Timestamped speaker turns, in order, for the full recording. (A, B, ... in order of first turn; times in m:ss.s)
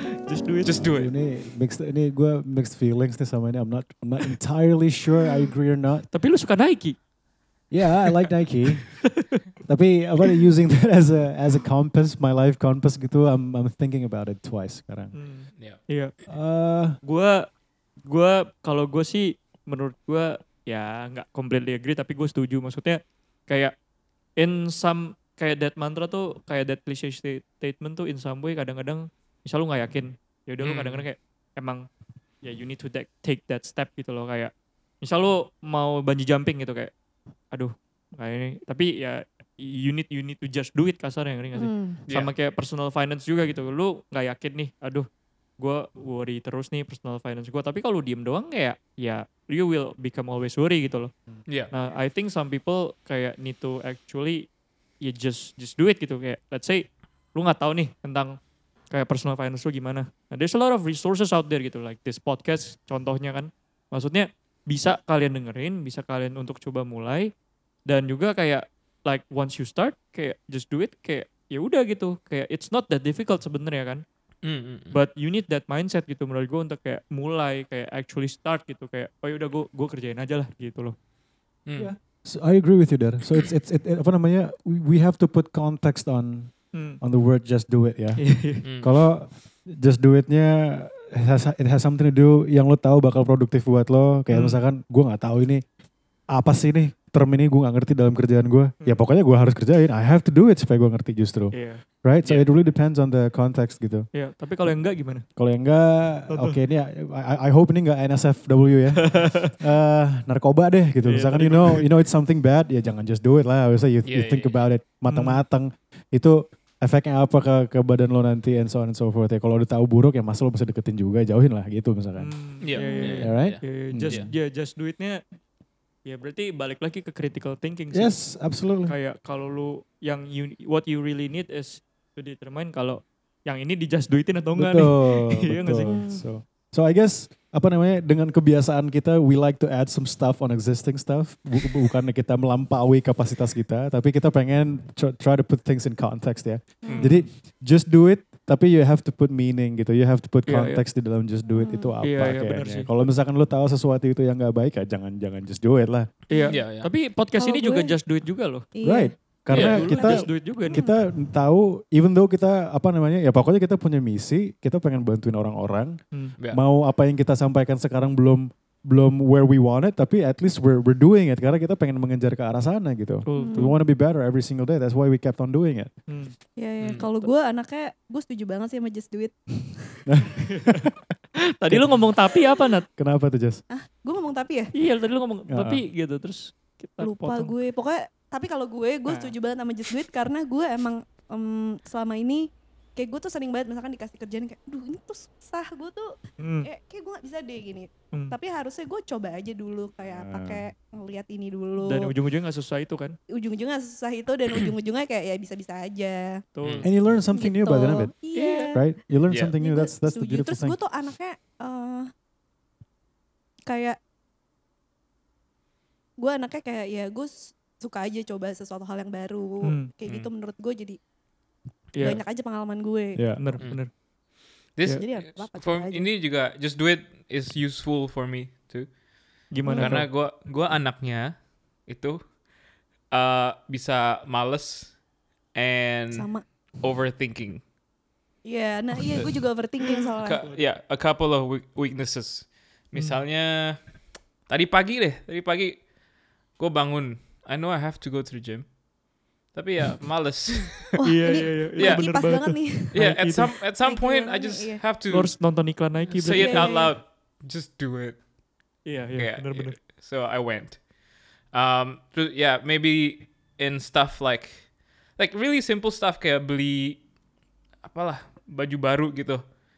0:00.2-0:00.8 A
0:00.6-0:01.1 B
0:00.8-0:06.0 C
0:06.1-0:07.0 A
0:07.7-0:09.1 C
0:08.9-0:09.4 A
0:09.6-0:15.1 C
0:15.1-0:16.1 A
0:16.3-0:17.0 C
0:17.0-0:17.4 A
0:18.0-0:23.7 A
0:24.4-0:31.8 A
0:30.6-0:31.0 B
0:32.4-0:36.9 A
0:37.5-0:45.1 A
0:41.5-0:42.0 D
0:42.1-0:42.3 B
0:45.6-0:51.1 A
0:51.5-0:51.7 B
0:51.7-0:54.5 A
0:55.0-0:58.4 A
0:58.9-1:07.3 A
1:07.9-1:14.0 A
1:14.4-1:15.0 B
1:14.9-1:20.9 A
1:21.7-1:35.6 C
1:26.7-1:27.0 A
1:28.2-1:28.6 A
1:28.6-1:28.9 B
1:34.3-1:34.6 A
1:36.3-1:44.0 C
1:41.5-1:41.8 A
1:44.1-1:45.2 A
1:45.4-2:02.3 C
1:46.3-1:46.6 A
1:49.0-1:49.5 A
1:51.0-1:51.9 A
1:54.0-1:54.7 B
1:55.1-1:55.4 A
2:02.2-2:05.3 A
2:02.6-2:04.3 B
2:02.8-2:03.2 D
2:03.2-2:04.3 C
2:06.0-2:08.2 A
2:07.9-2:08.9 C
2:08.8-2:16.0 A
2:14.5-2:36.1 C
2:15.9-2:16.2 D
2:30.4-2:30.8 A
2:31.5-2:31.9 D
2:32.0-2:32.9 A
2:36.3-2:36.6 D
2:36.3-2:38.6 A
2:36.5-2:36.9 B
2:37.4-2:37.9 D
2:38.7-2:39.1 D
2:38.8-2:46.0 C
2:39.5-2:39.8 B
2:39.5-2:40.8 A
2:39.7-2:40.9 D
2:46.5-2:55.9 C
2:53.2-2:53.8 A
2:53.4-2:53.7 D
2:56.1-2:56.3 A
2:56.6-3:00.0 D
2:56.8-2:57.1 B
3:00.1-3:00.9 C
3:00.5-3:00.9 A
3:01.6-3:02.8 A
3:01.7-3:02.0 C
3:03.0-3:03.6 C
3:03.7-3:04.7 D
3:04.7-3:07.5 A
3:05.5-3:05.8 C
3:07.0-3:22.1 D
3:09.1-3:09.3 A
3:16.4-3:16.7 A
3:20.0-3:20.7 C
3:21.8-3:23.1 A
3:23.3-3:26.3 D
3:26.5-3:26.9 A
3:26.8-3:28.1 C
3:27.3-3:28.8 D
3:28.3-3:28.7 A
3:28.7-3:30.8 C
3:29.3-3:29.6 B
3:29.6-3:32.1 D
3:33.7-3:34.0 D
3:36.2-3:41.0 D
3:39.6-3:39.9 A
3:41.9-3:42.2 A
3:42.0-3:43.2 D
3:43.2-3:43.4 C
3:43.4-3:43.9 A
3:44.7-3:49.0 B
3:45.0-3:46.1 D
3:49.5-3:50.1 A
3:49.6-3:50.0 D
3:49.7-3:52.3 B
3:53.1-3:55.0 B
3:55.5-3:57.6 B
3:56.1-3:56.4 D
3:58.4-4:00.4 D
4:00.0-4:03.8 B
4:02.9-4:03.2 A
4:04.4-4:05.8 B
4:06.5-4:08.7 B
4:09.5-4:11.0 B
4:11.0-4:13.0 D
4:11.0-4:13.6 A
4:11.6-4:12.1 B
4:12.9-4:15.4 B
4:13.8-4:14.8 D
4:15.1-4:16.8 A
4:16.1-4:18.2 B
4:16.3-4:17.0 D
4:18.8-4:19.8 A
4:19.2-4:20.8 B
4:21.5-4:27.0 B
4:27.8-4:29.5 B